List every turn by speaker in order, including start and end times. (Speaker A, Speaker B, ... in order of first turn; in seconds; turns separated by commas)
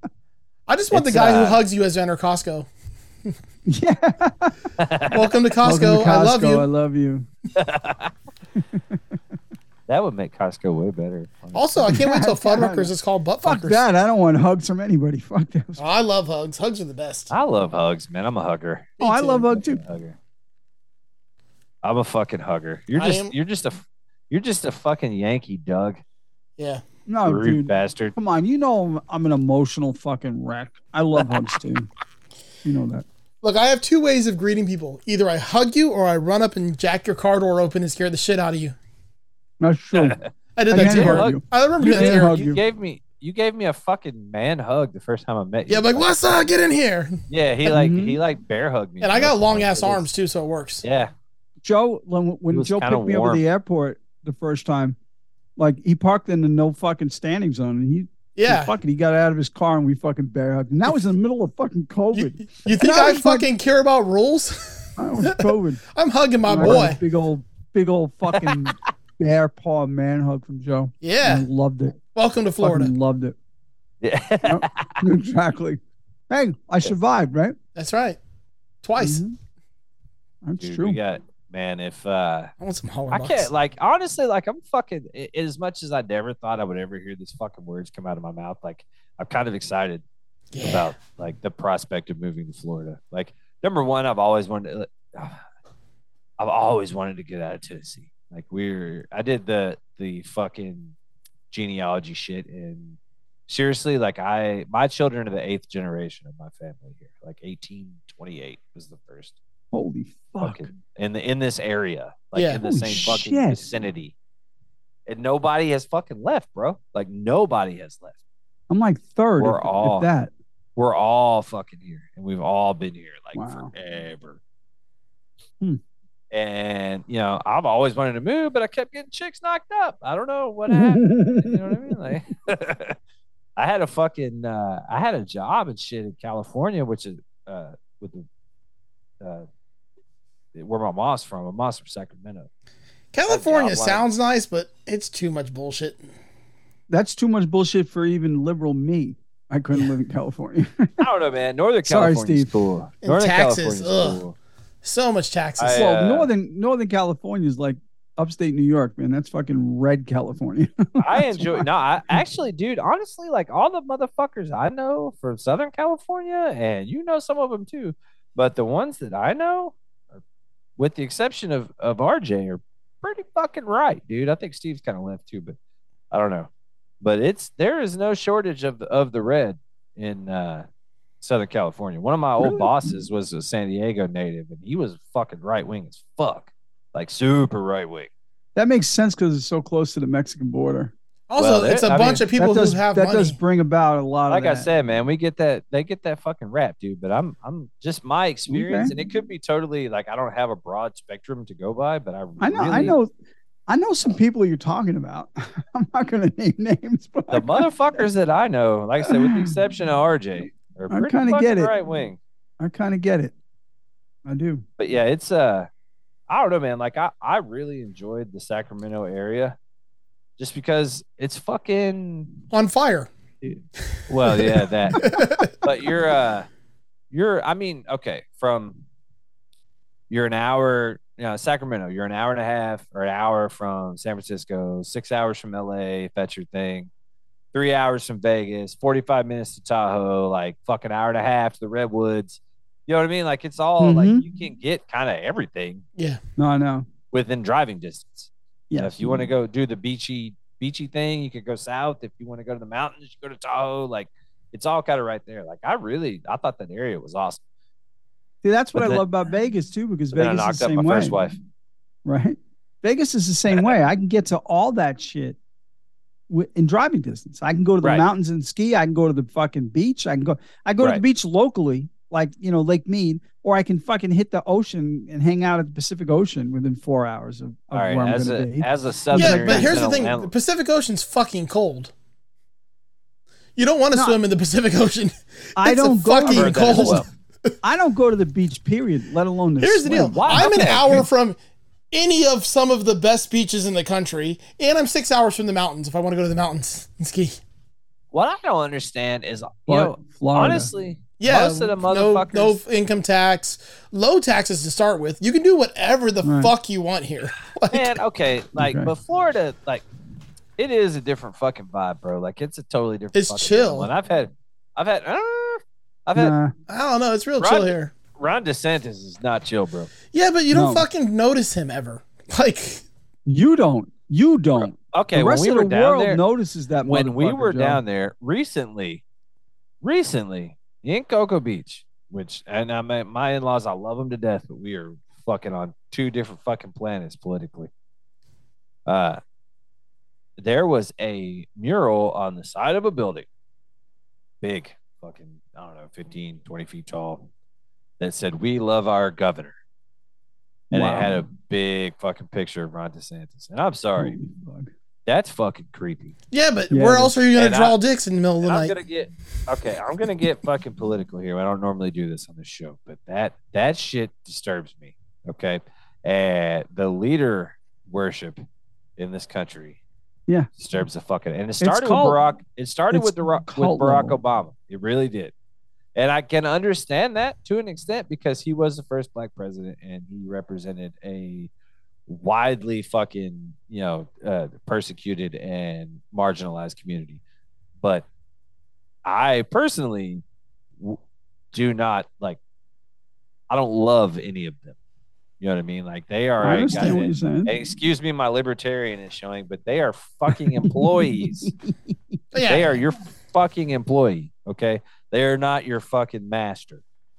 Speaker A: 0.7-2.7, Speaker B: 0.9-1.6, Speaker C: 3.6-4.5, Speaker B: 4.8-5.2, Speaker A: 5.1-6.6, Speaker C: 5.6-7.3, Speaker B: 7.5-8.1, Speaker C: 8.6-9.0, Speaker B: 9.9-11.9, Speaker A: 11.5-13.8, Speaker C: 11.9-15.8, Speaker A: 15.8-17.3, Speaker B: 17.3-20.1, Speaker C: 19.0-19.8, Speaker B: 21.8-26.0, Speaker A: 23.0-23.3, Speaker C: 27.1-31.9, Speaker B: 27.2-28.1, Speaker C: 32.6-33.0, Speaker A: 33.4-38.7, Speaker C: 39.6-40.2, Speaker B: 39.9-46.3, Speaker A: 40.5-42.4, Speaker C: 40.7-42.6, Speaker A: 45.7-47.2, Speaker B: 47.3-50.0, Speaker C: 47.6-48.2, Speaker A: 49.0-50.8, Speaker B: 50.8-51.1, Speaker C: 51.6-55.0, Speaker B: 52.5-53.4, Speaker C: 55.6-63.5, Speaker A: 58.4-58.7, Speaker A: 62.1-67.0, Speaker C: 65.0-65.8, Speaker C: 66.5-72.0, Speaker B: 68.3-68.7, Speaker A: 71.0-71.5, Speaker A: 72.1-72.9, Speaker C: 72.6-73.3, Speaker B: 74.0-75.0, Speaker C: 74.4-77.6, Speaker A: 77.8-78.2, Speaker A: 78.8-79.2, Speaker C: 79.0-79.3, Speaker C: 80.4-81.0, Speaker B: 80.6-82.5, Speaker A: 82.6-83.5, Speaker B: 83.1-90.0, Speaker A: 90.5-90.9, Speaker B: 90.6-95.4, Speaker B: 96.4-100.9, Speaker B: 101.5-109.3, Speaker C: 109.7-110.7, Speaker B: 110.4-114.1, Speaker A: 112.3-112.6, Speaker C: 112.6-113.6, Speaker B: 115.1-118.1, Speaker C: 118.7-120.3, Speaker B: 119.4-120.1, Speaker B: 120.8-124.4, Speaker C: 123.3-123.7, Speaker B: 126.3-133.0, Speaker C: 130.7-131.9, Speaker B: 133.6-138.2, Speaker B: 139.2-139.5, Speaker B: 140.5-142.5, Speaker A: 143.1-146.0, Speaker B: 143.2-144.0, Speaker C: 146.9-151.0, Speaker B: 151.0-154.3, Speaker C: 151.8-152.5, Speaker A: 153.0-154.2, Speaker A: 154.8-155.9, Speaker B: 155.6-156.3, Speaker C: 155.7-162.2, Speaker B: 161.0-170.2, Speaker B: 170.8-175.6, Speaker B: 176.1-176.5, Speaker B: 177.0-180.7, Speaker B: 181.2-188.1, Speaker C: 182.4-182.9, Speaker C: 188.6-190.9, Speaker A: 191.3-193.4, Speaker B: 191.4-192.2, Speaker C: 192.3-194.7, Speaker B: 194.3-203.0, Speaker C: 198.5-198.9, Speaker C: 202.4-203.1, Speaker C: 203.7-208.0, Speaker B: 207.3-212.2, Speaker C: 209.0-209.5, Speaker C: 210.9-211.7, Speaker C: 212.6-213.3, Speaker C: 214.2-214.6, Speaker B: 214.8-215.7, Speaker B: 216.3-219.6, Speaker B: 220.4-222.4, Speaker A: 222.5-223.1, Speaker B: 223.4-226.5, Speaker A: 224.3-225.5, Speaker B: 227.1-228.8, Speaker B: 230.1-236.9, Speaker B: 237.5-245.8, Speaker C: 243.8-244.2, Speaker C: 246.4-246.9, Speaker B: 247.1-257.4, Speaker C: 248.7-249.3, Speaker C: 258.4-261.2, Speaker B: 258.7-259.0, Speaker B: 260.1-261.4, Speaker C: 262.0-265.4, Speaker C: 266.3-280.0, Speaker B: 277.7-280.3, Speaker A: 279.1-281.9, Speaker A: 283.6-287.1, Speaker C: 283.9-284.2, Speaker C: 285.6-287.0, Speaker B: 286.2-287.1, Speaker C: 287.6-291.0, Speaker A: 289.6-291.4, Speaker B: 290.1-291.0, Speaker A: 291.9-297.4, Speaker B: 298.1-302.6, Speaker C: 299.7-300.7, Speaker A: 301.2-308.0, Speaker C: 306.2-306.5, Speaker B: 307.7-309.8, Speaker C: 308.6-308.9, Speaker B: 310.6-316.3, Speaker A: 313.1-313.9, Speaker C: 316.1-316.5, Speaker A: 316.7-317.9, Speaker B: 317.4-319.9, Speaker A: 320.1-322.8, Speaker C: 320.5-320.9, Speaker C: 323.2-327.8, Speaker B: 324.6-326.2, Speaker B: 326.9-329.0, Speaker B: 329.8-337.7, Speaker B: 338.9-339.2, Speaker B: 340.4-343.2, Speaker B: 344.4-347.3, Speaker B: 348.0-349.6, Speaker C: 350.7-351.2, Speaker B: 350.7-354.2, Speaker C: 354.0-354.7, Speaker B: 355.1-356.1, Speaker A: 356.3-358.7, Speaker C: 356.7-357.2, Speaker B: 357.3-357.8, Speaker B: 358.4-368.4, Speaker B: 369.0-369.8, Speaker B: 370.6-375.3, Speaker C: 371.6-372.2, Speaker C: 372.9-374.2, Speaker B: 375.9-381.5, Speaker B: 382.1-387.2, Speaker B: 387.8-388.1, Speaker B: 389.0-390.2, Speaker B: 391.5-392.4, Speaker B: 393.5-394.8, Speaker B: 395.4-401.5, Speaker C: 396.4-397.5, Speaker C: 400.3-401.9, Speaker A: 402.3-402.8, Speaker B: 402.4-406.8